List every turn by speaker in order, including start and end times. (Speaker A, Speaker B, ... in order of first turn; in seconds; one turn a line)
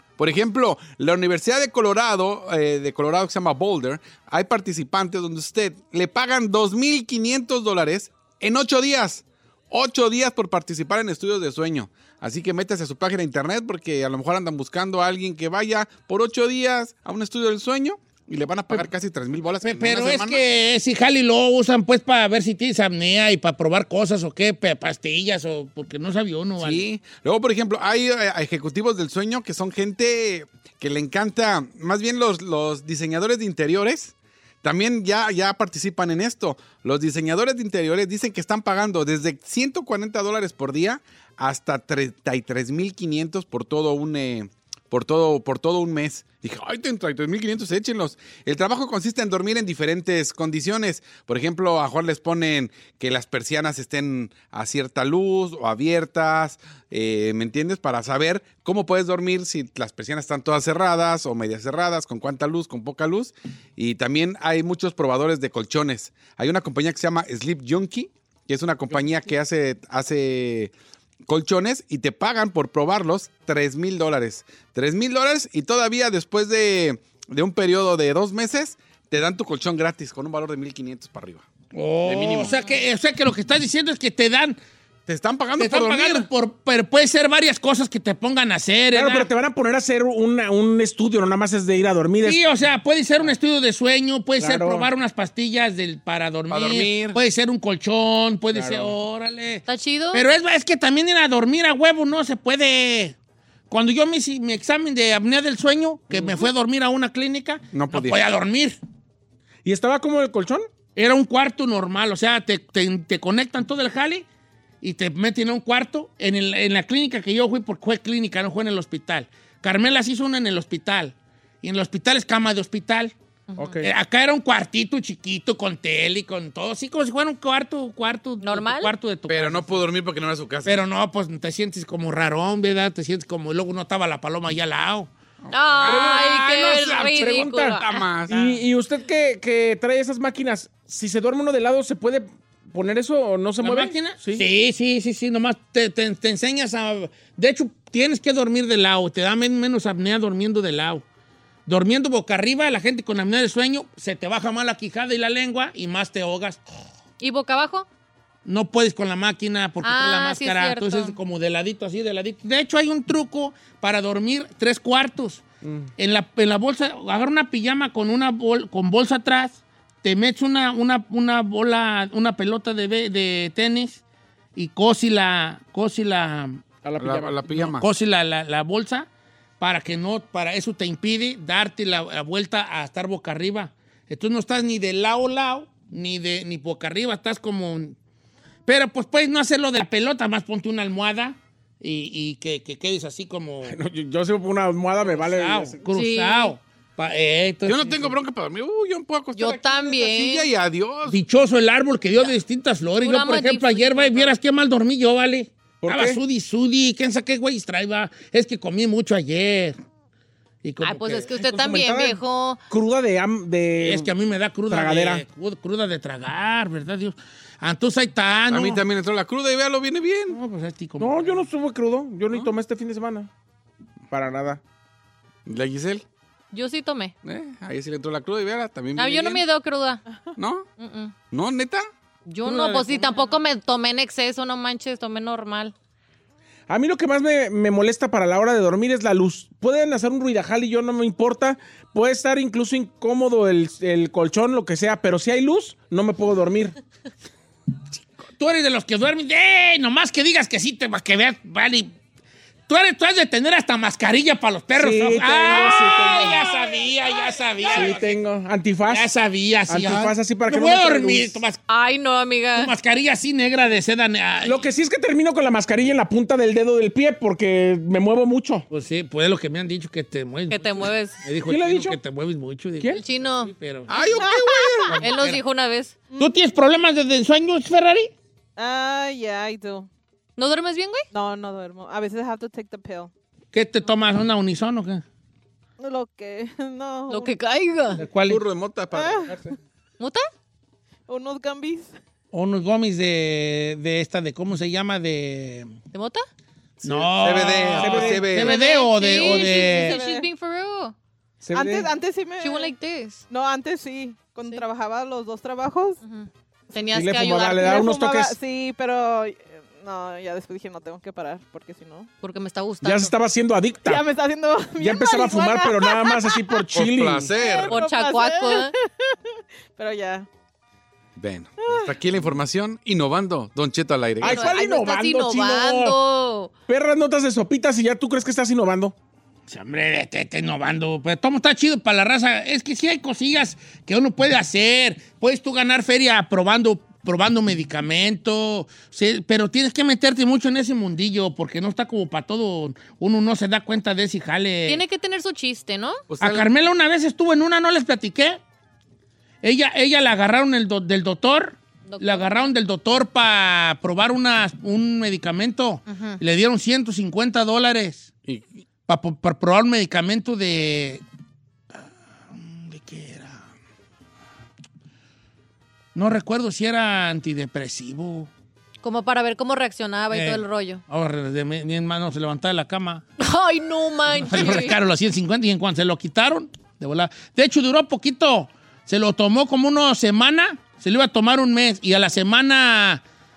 Speaker A: 0.2-20.4
Speaker B: 19.6-26.9
Speaker A: 26.6-70.7
Speaker A: 71.2-81.4
Speaker B: 81.7-84.6
Speaker A: 82.0-82.5
Speaker A: 85.1-86.3
Speaker B: 85.6-89.3
Speaker C: 88.9-92.4
Speaker B: 92.2-103.2
Speaker C: 94.4-94.9
Speaker A: 96.5-97.2
Speaker C: 98.5-98.9
Speaker D: 99.7-100.2
Speaker B: 103.7-108.8
Speaker C: 106.1-106.5
Speaker A: 107.7-108.2
Speaker C: 109.6-110.6
Speaker B: 111.0-114.2
Speaker B: 114.8-123.1
Speaker C: 123.5-123.9
Speaker B: 123.8-129.9
Speaker D: 128.4-128.9
Speaker A: 129.3-130.8
Speaker B: 130.6-135.1
Speaker A: 135.4-138.3
Speaker D: 135.5-138.1
Speaker C: 135.8-136.2
Speaker C: 136.9-144.5
Speaker B: 138.3-138.6
Speaker B: 143.6-151.0
Speaker B: 151.7-156.6
Speaker D: 157.2-157.9
Speaker B: 158.4-165.4
Speaker D: 159.8-161.2
Speaker C: 165.6-165.9
Speaker B: 166.0-174.0
Speaker B: 174.6-176.6
Speaker C: 176.8-177.4
Speaker A: 177.0-177.8
Speaker B: 177.5-179.1
Speaker B: 179.6-188.0
Speaker B: 188.7-193.8
Speaker C: 193.7-195.8
Speaker B: 195.0-198.1
Speaker D: 195.9-196.5
Speaker A: 197.7-201.2
Speaker D: 199.3-200.5
Speaker B: 201.1-209.8
Speaker D: 203.0-204.3
Speaker C: 205.8-206.2
Speaker B: 210.6-211.3
Speaker D: 210.8-212.6
Speaker C: 211.4-214.1
Speaker B: 213.8-218.8
Speaker C: 214.7-215.2
Speaker A: 218.5-220.4
Speaker B: 220.3-221.5
Speaker C: 221.0-223.3
Speaker C: 224.1-224.6
Speaker A: 225.4-226.0
Speaker D: 226.5-227.1
Speaker A: 227.2-229.4
Speaker D: 228.9-230.0
Speaker A: 230.4-230.7
Speaker D: 230.8-231.1
Speaker A: 231.3-231.8
Speaker D: 232.2-235.7
Speaker B: 232.4-233.0
Speaker C: 236.7-246.7
Speaker B: 248.4-251.9
Speaker B: 252.7-258.2
Speaker C: 254.8-256.5
Speaker C: 257.7-259.1
Speaker B: 258.9-261.6
Speaker C: 259.7-261.4
Speaker D: 261.7-262.7
Speaker B: 262.5-264.6
Speaker C: 264.4-268.6
Speaker B: 268.7-274.3
Speaker D: 270.5-271.2
Speaker C: 271.4-272.0
Speaker D: 273.0-273.5
Speaker A: 273.9-275.0
Speaker E: 274.1-274.9
Speaker B: 274.9-275.4
Speaker D: 275.0-276.0
Speaker E: 276.1-276.4
Speaker B: 276.1-278.1
Speaker E: 278.6-279.9
Speaker D: 280.4-281.1
Speaker E: 281.1-283.1
Speaker B: 283.5-285.0
Speaker E: 285.8-287.4
Speaker D: 287.1-288.0
Speaker B: 287.9-288.4
Speaker A: 288.2-289.4
Speaker E: 288.9-289.5
Speaker D: 290.0-290.2
Speaker E: 291.1-291.9
Speaker B: 292.3-295.8
Speaker D: 295.9-296.2
Speaker A: 296.8-298.6
Speaker B: 296.8-300.0
Speaker C: 297.8-298.5
Speaker D: 298.4-300.9
Speaker E: 299.0-300.3
Speaker C: 301.4-301.9
Speaker E: 301.5-302.7
Speaker D: 302.4-303.2
Speaker E: 303.3-306.0
Speaker D: 306.0-307.8
Speaker C: 306.9-308.4
Speaker E: 307.5-312.1
Speaker D: 312.2-313.1
Speaker C: 312.8-314.1
Speaker E: 313.8-316.6
Speaker C: 314.8-317.3
Speaker A: 316.7-317.8
Speaker E: 317.3-318.9
Speaker D: 317.7-318.7
Speaker E: 319.8-320.3
Speaker A: 321.1-324.5
Speaker E: 321.6-322.0
Speaker C: 324.2-326.0
Speaker D: 324.2-326.5
Speaker C: 326.7-328.9
Speaker B: 329.5-344.8
Speaker D: 344.7-346.0
Speaker A: 346.1-346.5
Speaker B: 346.2-348.4
Speaker B: 349.4-358.1
Speaker D: 351.9-352.3
Speaker D: 355.9-356.2
Speaker A: 358.3-358.6
Speaker B: 358.9-361.0
Speaker B: 361.7-363.5
Speaker B: 365.9-368.3
Speaker D: 368.8-370.8
Speaker B: 370.1-373.1
Speaker D: 373.2-374.8
Speaker B: 374.1-383.0